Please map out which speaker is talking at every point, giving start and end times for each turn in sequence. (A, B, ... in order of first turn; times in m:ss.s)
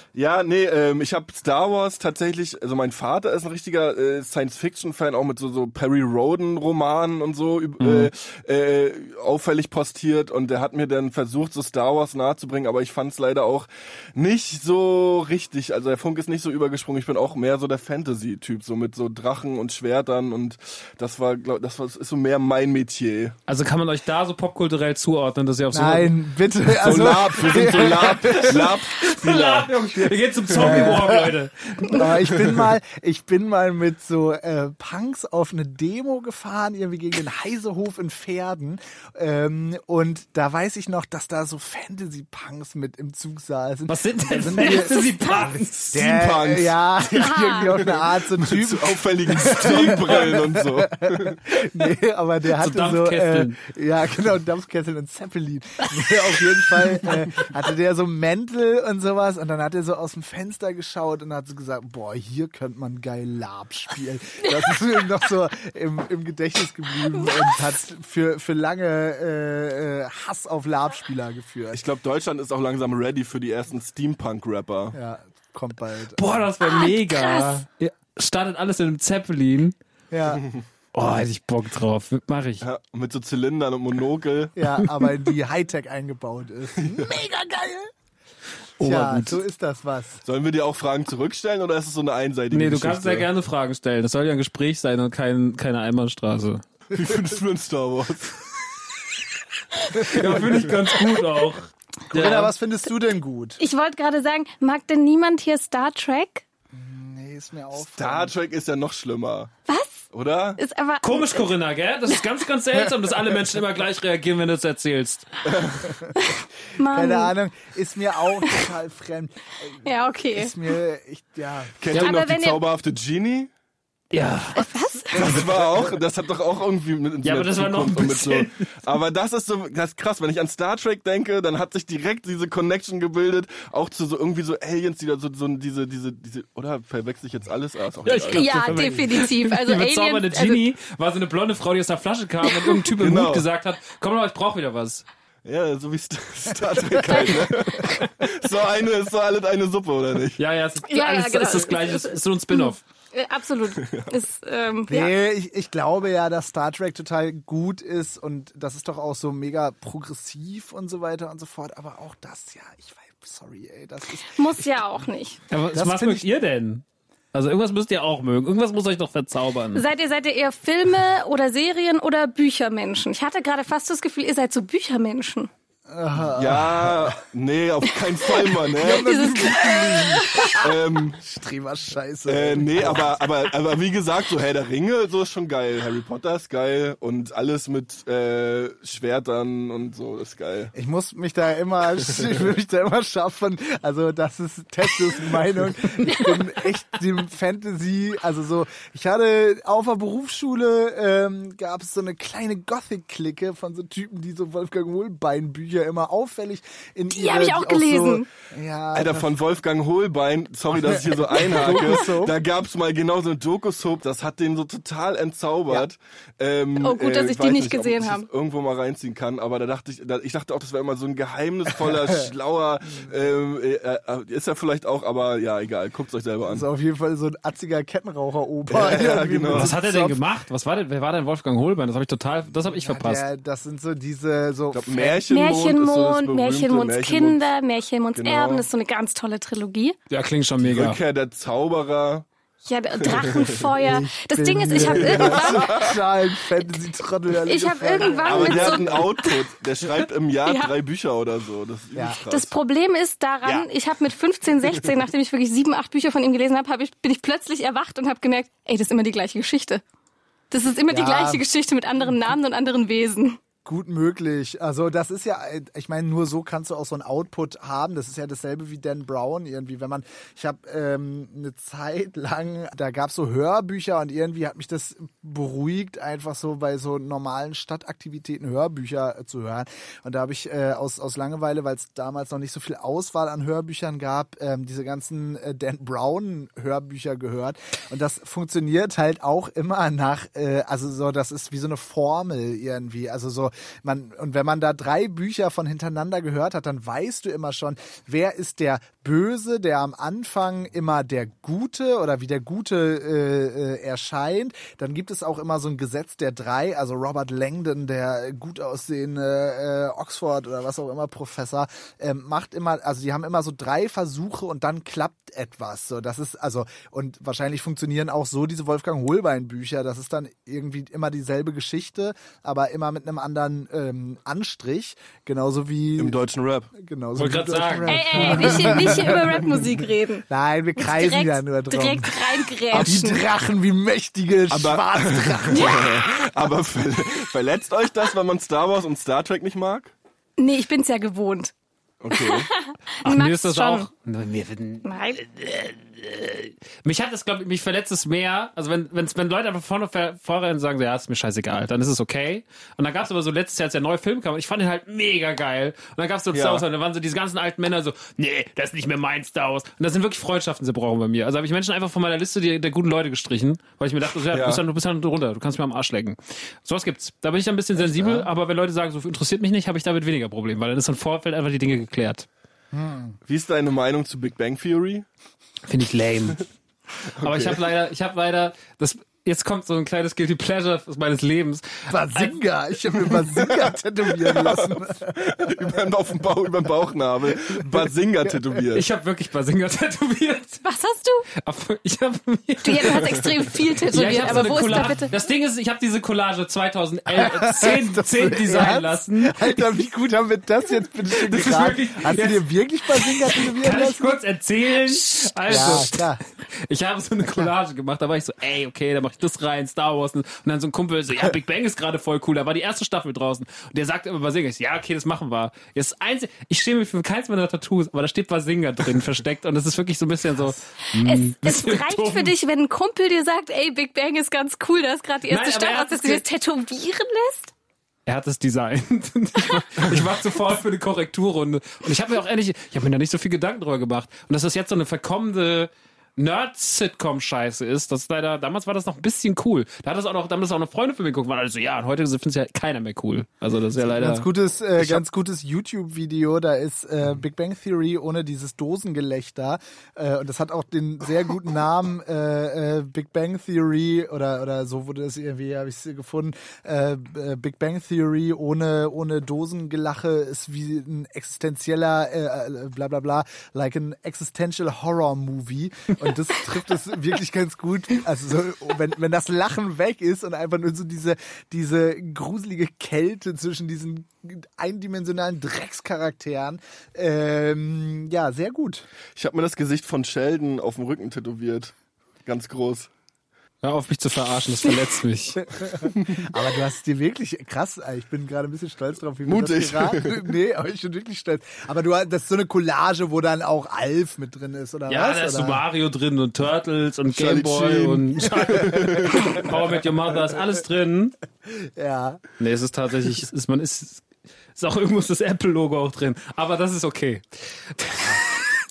0:00.1-0:23.4 A
0:07.8-0:08.1 B
0:23.5-0:26.1 B
0:25.7-0:28.8 C
0:26.8-0:29.7 A
0:27.4-0:32.0 B
0:30.5-0:31.1 A
0:30.5-1:11.8 C
0:32.3-0:32.6 A
0:43.9-0:45.7 B
0:45.3-0:51.4 A
0:47.2-0:47.7 D
0:52.6-0:53.6 B
1:11.7-1:15.0 A
1:14.9-1:16.5 C
1:16.2-1:19.8 B
1:16.6-1:17.6 D
1:20.1-1:20.4 C
1:20.4-1:20.6 A
1:20.9-1:22.6 B
1:22.6-1:24.6 A
1:24.6-1:27.9 C
1:26.8-1:27.1 A
1:28.8-1:29.4 B
1:28.8-1:30.2 C
1:30.2-1:33.3 A
1:32.5-1:36.6 B
1:36.9-1:38.4 A
1:40.0-1:42.5 B
1:40.1-1:40.7 A
1:40.1-1:40.4 C
1:42.1-1:43.6 C
1:43.6-1:46.4 D
1:46.7-1:48.3 C
1:47.9-1:49.5 A
1:49.7-1:50.1 D
1:50.1-1:50.6 A
1:50.6-1:51.5 D
1:51.0-1:55.2 B
1:55.4-1:56.0 A
1:55.9-1:56.2 C
1:56.2-1:57.3 D
1:56.8-2:01.9 C
1:59.8-2:00.6 D
2:01.8-2:03.5 A
2:01.9-2:02.6 D
2:04.1-2:04.7 B
2:04.5-2:05.2 D
2:05.1-2:18.8 A
2:05.2-2:05.8 C
2:07.2-2:08.6 B
2:18.0-2:25.0 B
2:18.3-2:20.6 D
2:22.5-2:22.8 D
2:23.0-2:23.5 A
2:25.4-2:30.4 A
2:26.7-2:27.8 C
2:27.1-2:27.5 D
2:30.4-2:32.8 B
2:30.9-2:35.1 D
2:33.8-2:34.1 A
2:34.9-2:44.7 C
2:44.3-2:45.4 D
2:45.5-2:49.8 B
2:45.7-2:46.3 C
2:49.7-2:55.5 D
2:55.9-2:57.2 C
2:56.3-2:59.5 A
2:58.2-3:00.6 D
2:58.8-3:03.2 C
3:00.6-3:01.2 A
3:02.3-3:10.7 A
3:10.7-3:29.3 C
3:27.1-3:28.3 D
3:28.9-3:46.6 A
3:30.8-3:32.4 C
3:36.8-3:38.3 D
3:41.8-3:42.1 C
3:46.5-3:50.2 C
3:48.7-3:49.7 A
3:49.5-3:53.2 B
3:52.7-3:55.2 C
3:54.7-3:57.4 A
3:55.3-3:59.9 D
3:58.2-3:58.6 A
4:00.1-4:01.0 B
4:00.6-4:02.3 A
4:02.6-4:05.9 D
4:03.0-4:03.6 A
4:03.8-4:09.1 C
4:04.7-4:06.0 A
4:07.4-4:09.4 D
4:08.0-4:12.5 A
4:10.4-4:10.7 D
4:11.9-4:12.2 C
4:12.3-4:19.8 D
4:20.5-4:23.4 D
4:20.9-4:21.4 C
4:23.6-5:26.2 C
5:26.0-5:26.7 A
5:26.7-5:29.4 C
5:27.2-5:28.8 B
5:27.9-5:30.2 D
5:30.3-5:35.9 C
5:30.8-5:33.2 D
5:32.7-5:33.0 A
5:34.5-5:39.9 A
5:35.5-5:36.1 D
5:40.4-5:41.5 D
5:42.0-5:42.5 A
5:42.1-5:43.9 D
5:43.0-6:12.2 B
5:44.8-5:45.2 D
5:56.3-5:56.6 A
6:04.3-6:04.6 A
6:07.8-6:08.3 A
6:12.7-6:13.2 C
6:13.2-6:15.0 A
6:15.6-6:16.5 B
6:17.1-6:17.6 A
6:17.2-6:22.4 B
6:21.9-6:25.8 C
6:23.0-6:28.8 A
6:27.3-6:28.4 C
6:28.7-6:30.6 B
6:30.6-6:31.2 D
6:31.4-6:33.3 B
6:32.6-6:35.1 D
6:33.9-6:39.6 B
6:37.1-6:44.2 C
6:41.1-7:02.3 B
6:45.4-6:46.2 C
7:00.3-7:00.6 C
7:01.0-7:07.5 D
7:05.3-7:06.2 B
7:08.0-7:25.0 B
7:23.8-7:58.8 C
7:59.2-8:01.7 A
8:02.2-8:02.9 A
8:03.6-8:05.5 B
8:05.4-8:15.6 C
8:06.0-8:06.2 A
8:09.2-8:10.3 A
8:14.9-8:21.2 B
8:17.1-8:19.5 A
8:18.8-8:19.2 C
8:21.4-8:22.2 C
8:22.4-8:28.4 B